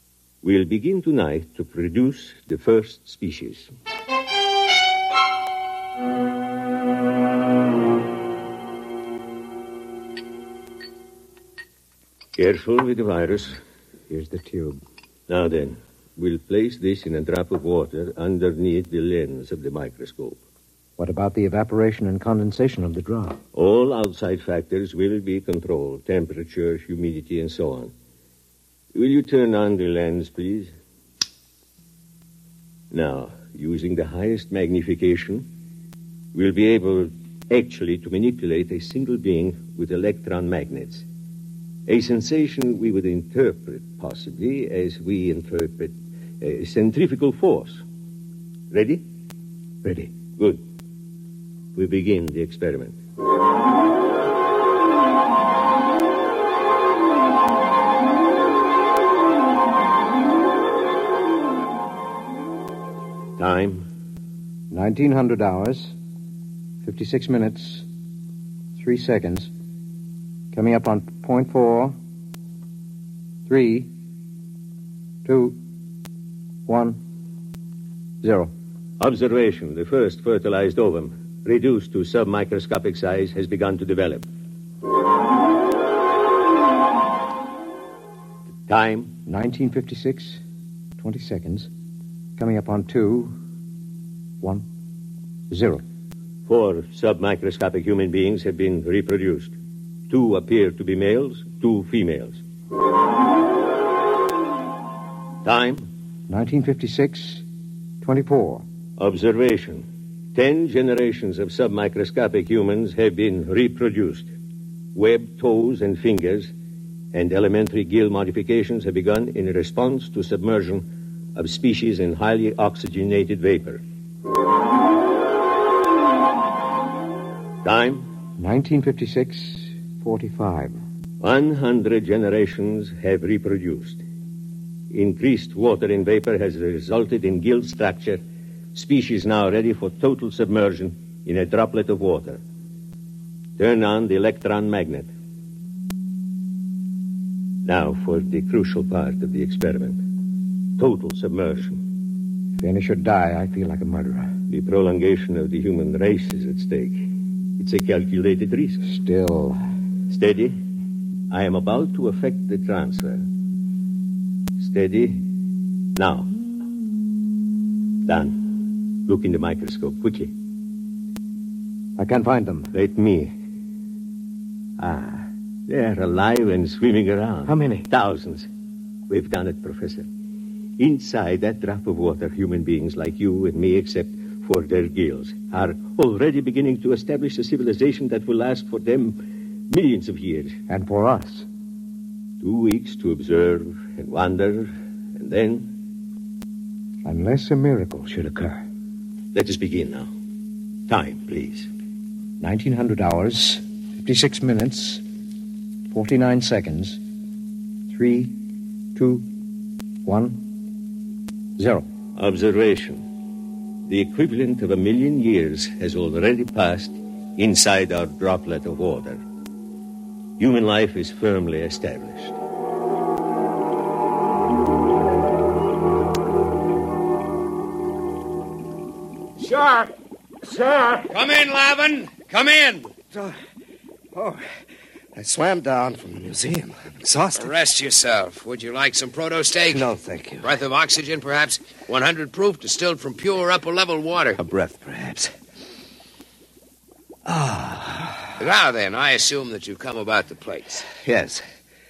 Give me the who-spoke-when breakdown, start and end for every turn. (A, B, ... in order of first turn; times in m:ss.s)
0:00.4-0:03.7 A
0:12.4-0:13.6 A
0:14.1-0:14.8 B
0:15.3-0:20.4 A
0:21.0-0:23.4 B
0:23.5-0:27.9 A
0:28.9-0:30.7 A
0:32.9-0:35.5 A
0:36.3-0:41.0 A
0:41.9-0:47.8 A
0:48.7-0:49.0 A
0:49.8-0:50.1 B
0:50.4-0:50.6 A
0:51.8-0:53.0 A
1:03.4-1:03.9 A
1:04.7-1:05.9 B
1:06.8-1:07.8 B
1:08.8-1:09.5 B
1:10.5-1:11.9 B
1:13.5-1:13.9 B
1:15.2-1:15.6 B
1:16.7-1:17.0 B
1:18.2-1:18.5 B
1:19.0-1:24.2 A
1:28.7-1:29.1 A
1:29.2-1:30.4 B
1:31.0-1:31.7 B
1:32.4-1:33.4 B
1:35.5-1:35.8 B
1:36.5-1:39.5 A
1:40.1-1:42.4 A
1:45.4-1:45.9 A
1:46.3-1:47.4 B
1:48.0-1:48.6 B
1:49.0-1:54.3 A
1:54.9-1:56.5 A
1:57.1-2:03.8 A
2:07.6-2:08.1 A
2:08.4-2:10.8 B
2:11.2-2:14.0 A
2:14.9-2:18.2 A
2:18.7-2:22.4 A
2:23.6-2:25.1 A
2:27.6-2:30.0 A
2:30.8-2:31.8 A
2:32.6-2:34.3 B
2:34.5-2:37.1 A
2:37.6-2:38.8 A
2:38.8-2:39.6 B
2:40.1-2:40.6 A
2:41.3-2:43.2 A
2:44.6-2:45.2 A
2:45.9-2:46.3 A
2:48.0-2:50.3 A
2:52.0-2:52.7 B
2:52.7-2:53.3 A
2:54.8-2:58.5 A
2:57.4-2:57.9 B
2:59.1-3:00.1 A
3:00.8-3:10.6 A
3:10.7-3:11.4 B
3:12.4-3:15.8 A
3:17.0-3:18.6 B
3:19.3-3:20.1 A
3:20.9-3:21.7 A
3:22.4-3:25.0 B
3:25.9-3:27.0 B
3:27.9-3:28.4 B
3:28.9-3:29.3 B
3:30.0-3:30.5 B
3:31.6-3:31.9 B
3:32.1-3:33.1 A
3:33.9-3:39.2 A
3:40.4-3:42.4 A
3:49.4-3:49.9 C
3:50.4-3:51.1 C
3:51.1-3:52.9 D
3:54.1-3:54.4 C
3:55.1-3:57.5 C
3:57.4-3:59.9 D
3:59.7-4:00.5 C
4:00.4-4:04.4 D
4:04.4-4:05.3 C
4:07.2-4:08.4 C
4:08.4-4:10.9 D
4:11.0-4:11.4 C